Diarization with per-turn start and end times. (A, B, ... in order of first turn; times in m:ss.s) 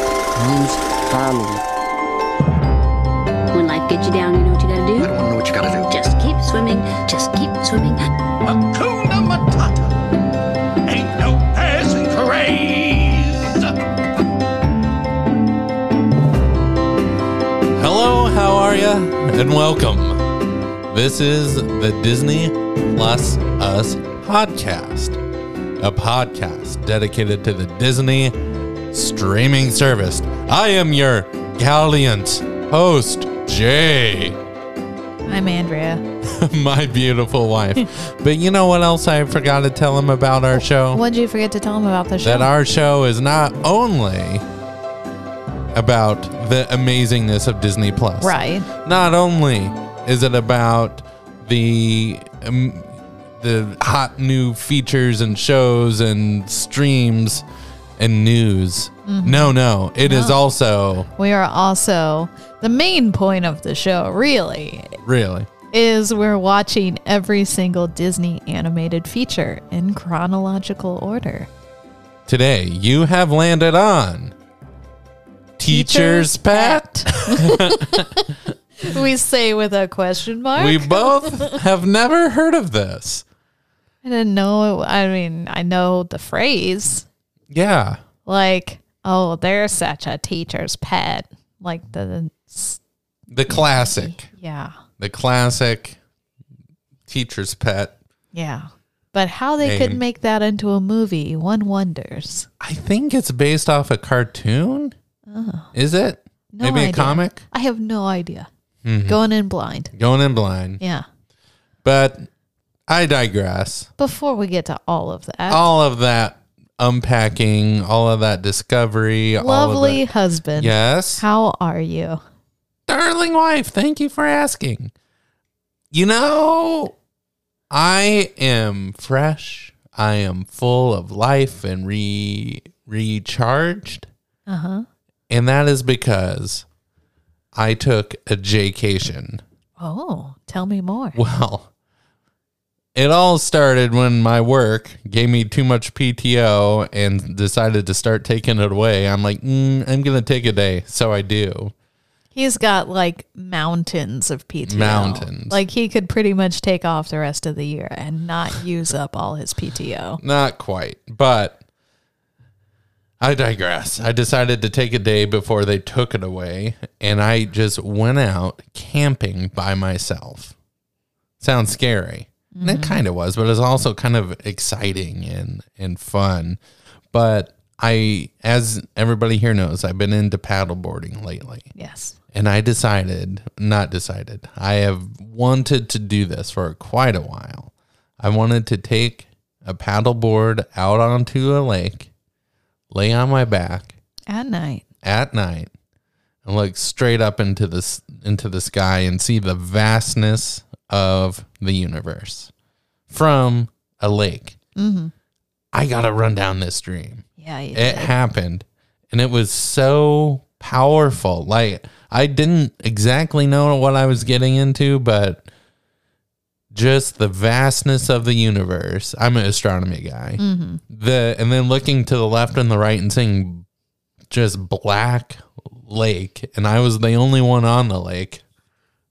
0:00.4-0:01.6 A
0:03.5-0:05.2 B
0:05.0-0:05.8 A
0:05.8-0:08.1 B
0:08.9-0:09.7 C
0:10.9-0:13.2 C
0:17.8-0:20.2 D
0:20.9-0:25.2 D
0:25.8-0:34.4 D
0:35.3-0:36.0 E
0:36.2-0:41.0 D
0:40.6-0:42.5 E
0:42.2-0:44.5 D
0:45.7-0:57.4 D
0:48.2-0:48.7 E
0:58.0-1:01.1 D
0:59.1-1:00.4 E
1:01.2-1:05.0 E
1:05.0-1:05.5 D
1:05.7-1:11.5 E
1:12.3-1:14.3 D
1:15.6-1:18.3 D
1:15.7-1:18.1 E
1:18.8-1:21.5 E
1:20.6-1:23.2 D
1:24.0-1:27.1 E
1:27.5-1:28.0 D
1:28.2-1:32.8 E
1:33.3-1:34.3 D
1:33.5-1:34.8 E
1:35.0-1:36.0 D
1:37.1-1:38.0 D
1:38.3-1:42.5 E
1:39.6-1:40.0 D
1:42.6-1:45.0 D
1:45.3-1:45.7 E
1:45.7-1:47.4 D
1:46.5-1:48.5 E
1:48.8-1:49.2 D
1:49.1-1:49.9 E
1:49.9-1:50.8 D
1:50.8-1:51.1 E
1:51.8-1:52.3 D
1:52.9-1:53.9 D
1:54.0-1:55.7 E
1:55.5-2:00.0 D
1:59.4-2:02.2 E
2:00.6-2:01.2 D
2:02.9-2:04.9 D
2:05.9-2:06.9 D
2:07.7-2:14.1 D
2:14.5-2:14.8 E
2:15.3-2:16.7 D
2:17.5-2:19.4 D
2:19.8-2:21.2 E
2:21.2-2:21.7 D
2:22.9-2:31.7 D
2:32.3-2:40.2 E
2:34.7-2:35.6 D
2:40.2-2:41.6 D
2:43.2-2:50.6 D
2:51.4-2:56.6 D
2:52.5-2:53.0 E
2:57.1-3:01.7 D
3:01.8-3:02.2 E
3:02.3-3:12.1 D
3:12.9-3:13.9 D
3:14.3-3:14.8 E
3:15.0-3:15.7 D
3:16.4-3:22.5 D
3:23.1-3:24.6 D
3:24.8-3:25.1 E
3:25.7-3:35.5 D
3:27.4-3:28.1 E
3:36.7-3:43.6 D
3:40.4-3:40.8 E
3:44.3-3:48.4 D